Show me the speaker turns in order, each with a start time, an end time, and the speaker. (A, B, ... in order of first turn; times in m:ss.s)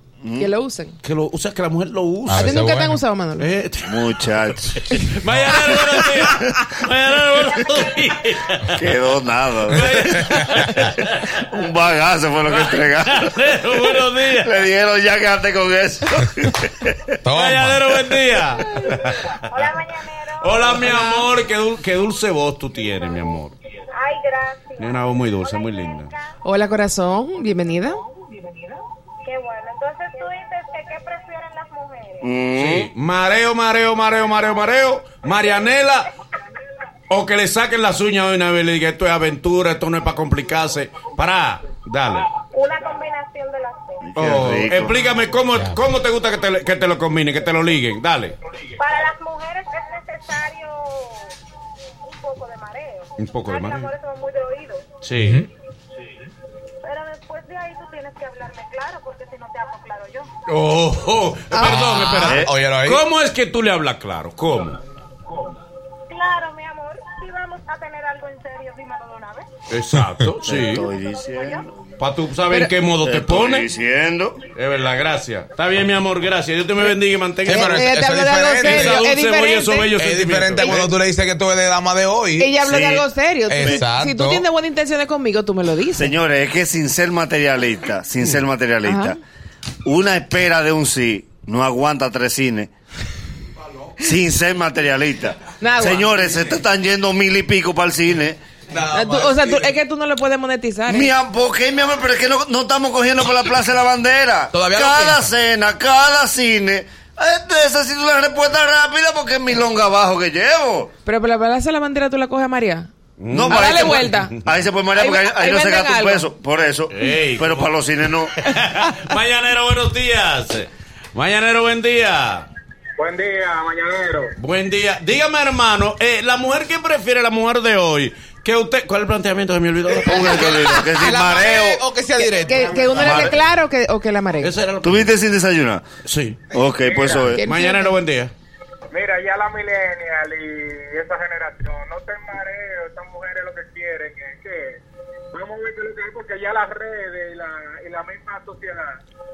0:00.2-0:00.5 A
0:00.4-0:01.0 B
0:01.0-0:02.7 C
0:02.3-0:03.0 D
0:02.3-0:03.5 B
0:03.4-0:08.8 C
0:03.8-0:04.9 A
0:08.7-0:10.3 A
0:09.7-0:11.4 C
0:11.4-0:13.3 A
0:12.5-0:14.5 C
0:14.4-0:17.0 A
0:17.2-0:18.0 D
0:17.3-0:19.5 C
0:18.9-0:21.1 E
0:20.4-0:23.6 C
0:21.0-0:21.3 B
0:23.9-0:26.3 E
0:24.8-0:26.1 C
0:26.4-0:28.0 B
0:29.2-0:32.3 E
0:32.2-0:32.9 A
0:32.6-0:36.1 C
0:37.1-0:42.3 C
0:42.5-0:44.0 E
0:44.0-0:45.0 A
0:44.2-0:48.4 C
0:48.8-0:51.3 E
0:52.0-0:54.9 E
0:53.2-0:53.9 C
0:55.0-0:55.4 C
0:55.2-0:55.5 D
0:56.8-1:00.3 E
1:00.5-1:04.8 C
1:01.6-1:02.2 B
1:01.6-1:03.0 D
1:06.1-1:09.5 E
1:09.7-1:10.9 C
1:10.4-1:11.7 A
1:10.6-1:11.6 E
1:12.0-1:13.7 C
1:13.0-1:14.4 A
1:14.6-1:17.9 C
1:17.5-1:19.1 D
1:17.5-1:20.0 B
1:18.6-1:20.9 C
1:20.0-1:22.8 D
1:20.6-1:20.8 B
1:22.4-1:26.1 B
1:22.7-1:23.0 A
1:23.5-1:24.4 D
1:26.0-1:29.2 A
1:28.8-1:29.2 B
1:29.8-1:32.7 A
1:34.0-1:38.4 A
1:35.6-1:36.1 B
1:38.7-1:39.7 D
1:38.9-1:41.1 B
1:40.9-1:50.9 A
1:44.5-1:45.3 D
1:51.1-1:52.9 B
1:53.2-1:54.3 C
1:53.3-1:58.3 A
1:53.5-1:54.4 B
1:54.9-1:56.3 B
1:56.9-1:57.7 C
1:58.4-2:02.5 C
2:03.0-2:04.3 F
2:04.4-2:10.8 C
2:10.0-2:11.8 A
2:10.9-2:13.3 D
2:12.2-2:14.5 B
2:12.9-2:13.4 A
2:14.4-2:15.2 C
2:14.8-2:15.8 A
2:16.0-2:16.4 C
2:16.5-2:17.4 A
2:16.8-2:17.2 F
2:17.2-2:18.0 B
2:17.4-2:18.3 C
2:18.9-2:24.8 F
2:25.3-2:29.0 F